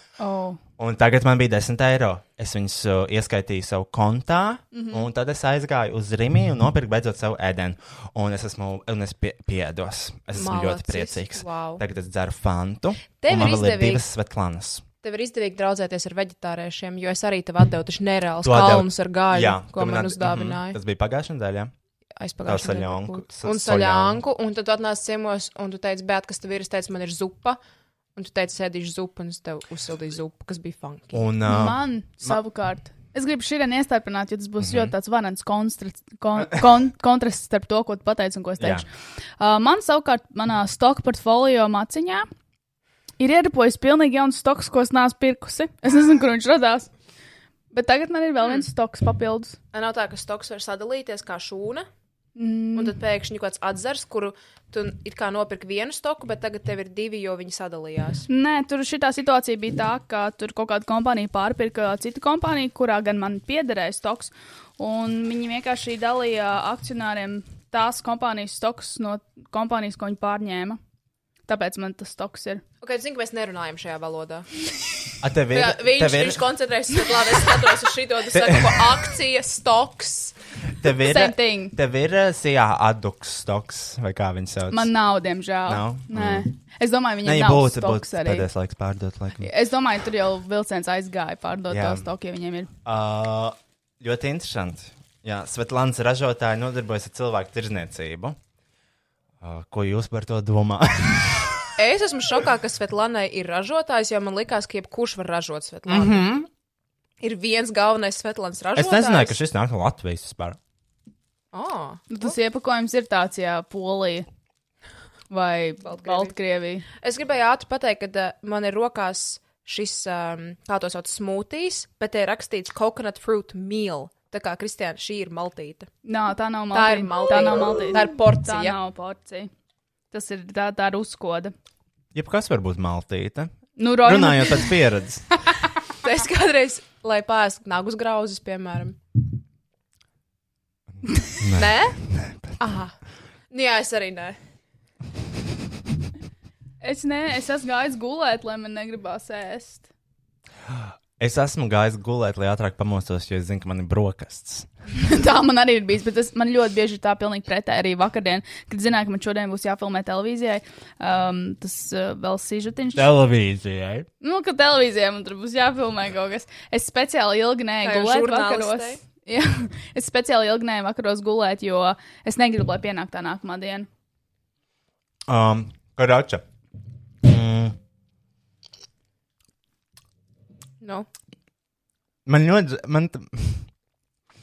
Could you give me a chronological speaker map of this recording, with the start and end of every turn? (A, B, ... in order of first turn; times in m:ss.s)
0:00.2-0:00.6 A
0:00.8-0:14.8 B
0:04.7-0:05.0 A
0:10.3-0:11.8 C
0:13.2-0:14.0 C
0:15.0-0:20.8 C
0:18.4-0:21.7 B
0:22.2-0:27.6 C
0:22.4-0:24.2 B
0:28.1-0:31.2 C
0:31.1-0:32.4 B
0:31.5-0:38.9 A
0:34.6-0:34.9 B
0:38.6-0:38.8 B
0:39.4-0:42.3 A
0:43.2-0:46.9 A
0:47.7-0:49.6 A
0:49.7-0:51.9 C
0:52.4-0:52.9 A
0:52.7-0:58.2 C
0:58.3-1:10.8 A
1:11.5-1:12.6 A
1:12.8-1:14.5 C
1:15.2-1:16.4 B
1:15.5-1:20.4 C
1:18.3-1:18.9 B
1:20.8-1:24.9 B
1:21.0-1:21.7 A
1:24.7-1:28.5 A
1:25.6-1:26.4 B
1:27.2-1:29.5 B
1:29.4-1:32.7 A
1:31.7-1:32.1 B
1:32.8-1:38.4 B
1:39.4-1:41.7 B
1:41.8-1:46.3 C
1:45.9-1:46.5 B
1:47.2-1:49.4 C
1:48.7-1:50.6 B
1:51.5-1:52.3 C
1:52.1-1:54.2 A
1:55.3-1:56.8 A
1:55.8-1:56.3 C
1:57.0-2:05.9 C
2:06.0-2:09.5 A
2:06.7-2:08.8 C
2:10.1-2:11.5 A
2:12.1-2:15.2 B
2:13.8-2:14.7 A
2:16.0-2:19.0 C
2:21.4-2:22.6 B
2:21.5-2:22.0 C
2:22.6-2:22.9 C
2:23.5-2:24.4 C
2:26.8-2:29.9 A
2:30.7-2:34.7 B
2:35.0-2:43.1 A
2:42.9-2:44.1 B
2:44.2-2:53.9 A
2:47.8-2:49.0 C
2:55.3-2:56.4 B
2:57.2-2:57.8 B
3:00.8-3:01.1 C
3:02.2-3:03.6 B